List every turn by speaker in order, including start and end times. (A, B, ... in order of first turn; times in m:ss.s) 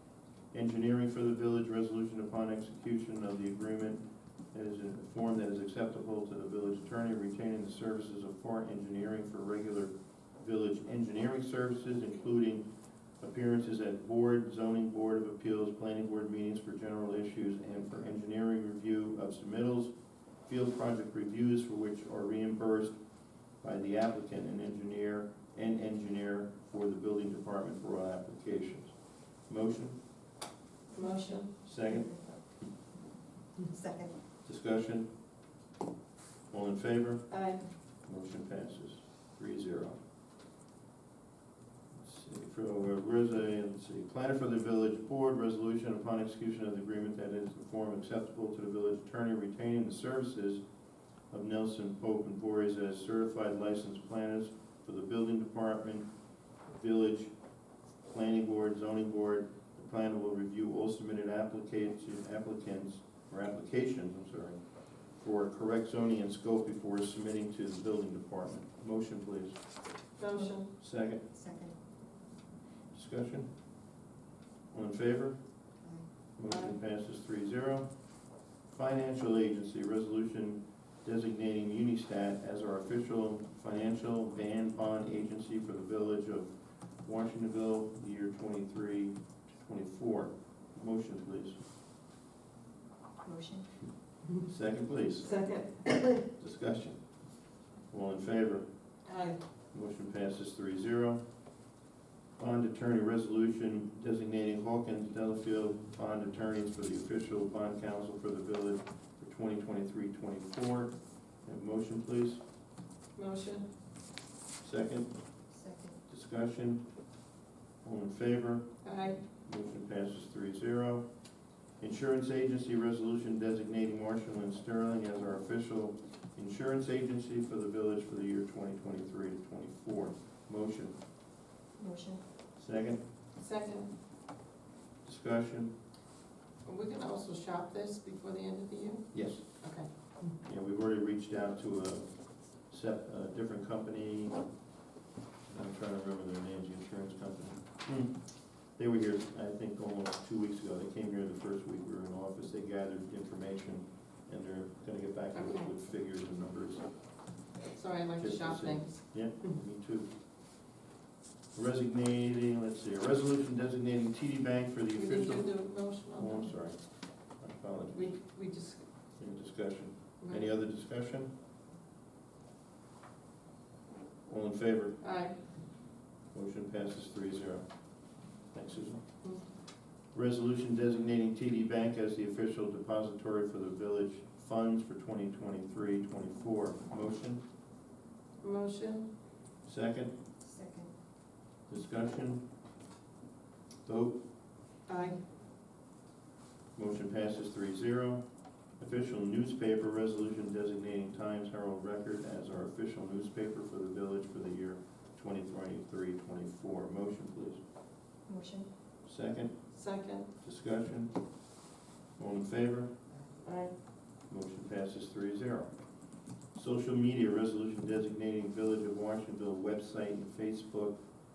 0:00.5-0:12.7 A
0:13.2-0:19.9 A
0:20.4-0:23.0 A
0:23.6-0:28.9 A
0:29.4-0:30.0 A
0:30.9-0:32.4 B
0:30.9-0:31.6 C
0:31.6-0:32.7 A
0:33.6-0:34.2 B
0:34.4-0:35.1 A
0:36.5-0:37.4 A
0:37.3-0:37.6 C
0:38.0-0:40.0 A
0:42.0-0:50.6 A
0:51.3-0:56.1 A
0:56.7-0:57.3 A
0:58.0-1:04.6 A
1:05.1-1:09.6 A
1:10.2-1:10.7 C
1:10.8-1:11.2 A
1:11.2-1:11.8 B
1:12.9-1:13.5 A
1:14.7-1:15.4 A
1:15.8-1:16.1 B
1:16.4-1:17.9 A
1:16.5-1:16.7 C
1:18.7-1:31.6 A
1:33.2-1:33.9 B
1:34.4-1:35.3 A
1:35.2-1:36.2 C
1:36.3-1:37.0 A
1:37.9-1:38.7 A
1:39.0-1:39.4 C
1:39.7-1:41.2 A
1:42.4-1:52.4 A
1:53.2-1:53.6 C
1:54.6-1:55.1 A
1:55.5-1:56.0 B
1:56.1-1:56.8 A
1:57.8-2:01.1 A
1:58.8-1:59.2 C
2:01.8-2:10.9 A
2:11.8-2:12.2 B
2:12.6-2:13.0 A
2:13.4-2:13.9 C
2:15.0-2:15.7 A
2:16.6-2:20.3 C
2:19.1-2:19.4 A
2:20.4-2:24.4 A
2:25.5-2:36.8 A
2:35.3-2:35.7 C
2:37.7-2:39.6 C
2:38.2-2:40.1 A
2:41.5-2:48.1 A
2:44.9-2:46.5 C
2:47.9-2:48.8 C
2:49.2-2:51.3 A
2:54.2-2:55.0 A
2:55.0-2:55.4 C
2:56.3-2:57.7 A
2:58.5-2:59.0 A
3:00.1-3:07.4 A
3:08.4-3:09.1 C
3:09.6-3:10.1 A
3:10.4-3:10.9 B
3:11.7-3:12.4 A
3:13.8-3:14.2 A
3:14.9-3:15.2 C
3:16.8-3:18.2 A
3:18.8-3:27.6 A
3:28.2-3:28.7 B
3:29.0-3:29.7 A
3:29.7-3:30.3 C
3:30.4-3:31.2 A
3:32.2-3:32.9 A
3:33.4-3:33.7 C
3:34.3-3:35.7 A
3:36.5-3:41.0 A